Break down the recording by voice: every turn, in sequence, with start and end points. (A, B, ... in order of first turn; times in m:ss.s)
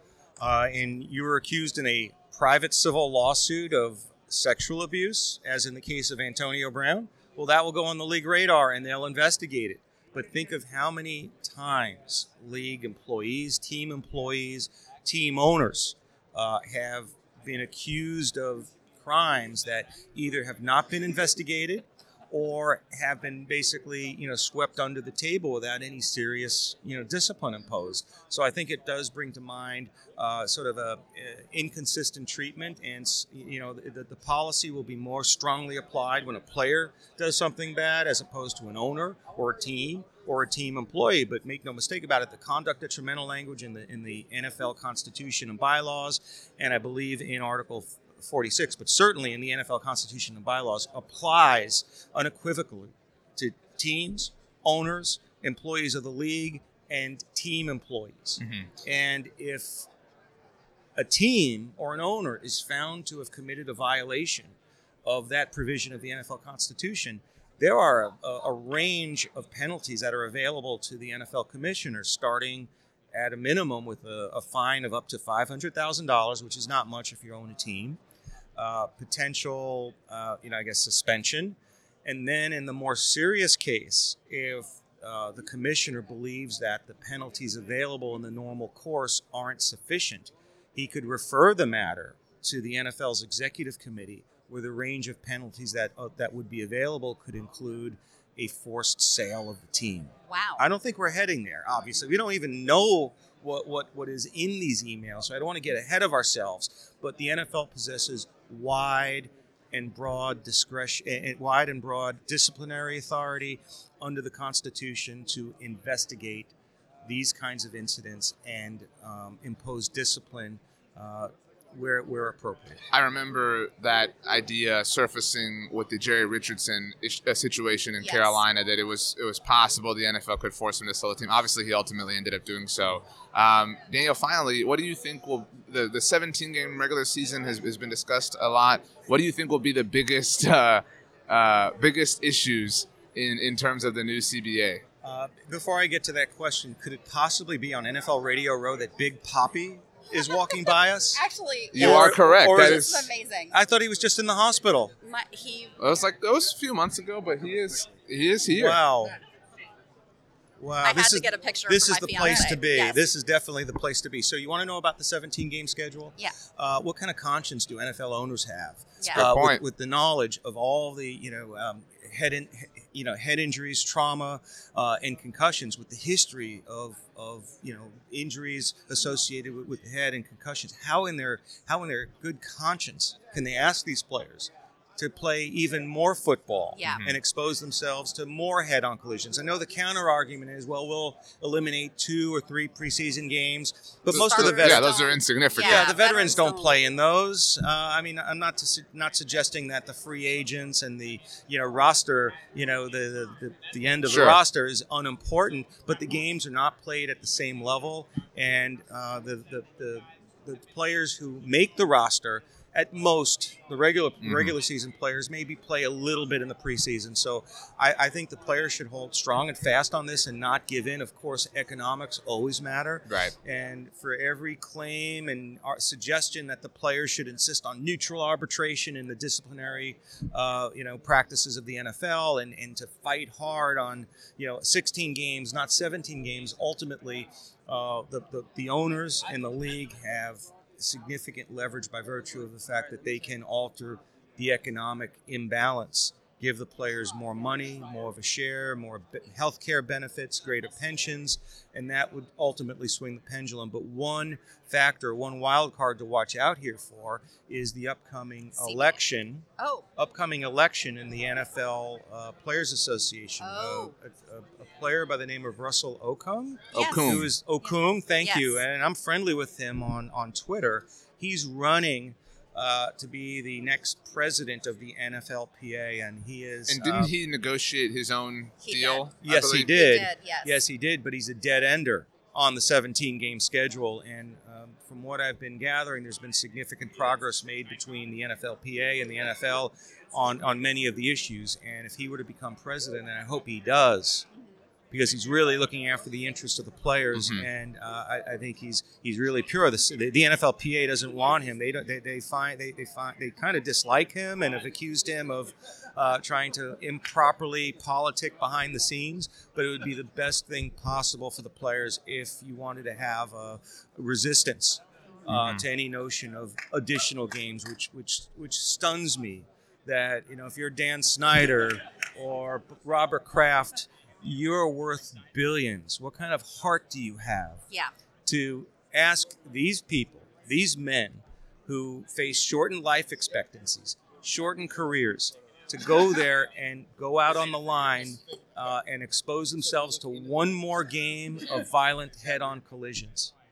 0:00.4-0:59.9 A
0:58.4-0:58.7 B
1:01.0-1:18.0 A
1:18.6-1:56.5 A
1:40.3-1:40.6 C
1:57.0-2:02.8 A
2:02.9-2:24.8 B
2:08.0-2:08.4 C
2:25.0-2:31.2 A
2:31.1-2:33.6 C
2:31.7-2:33.1 B
2:31.8-2:32.9 A
2:33.5-2:34.9 A
2:35.0-2:35.7 C
2:35.8-2:38.9 B
2:38.5-2:39.2 A
2:40.6-3:14.9 A
2:40.8-2:43.0 C
2:49.0-2:49.3 C
2:49.1-2:49.6 B
3:06.8-3:07.1 C
3:06.9-3:07.2 B
3:14.1-3:16.8 C
3:14.1-3:15.9 B
3:15.6-4:19.5 A
3:24.1-3:24.4 B
3:34.2-3:34.5 B
3:43.1-3:43.3 B
4:18.6-4:19.0 C
4:19.6-4:19.8 C
4:20.0-4:37.1 A
4:23.4-4:23.9 C
4:26.7-4:27.1 C
4:26.7-4:27.3 B
4:27.6-4:28.6 C
4:36.7-4:39.8 B
4:38.6-4:39.1 C
4:39.2-4:54.3 A
4:39.6-4:40.5 C
4:54.9-5:27.6 A
4:57.1-4:57.5 B
5:15.3-5:15.6 B
5:28.3-5:43.3 A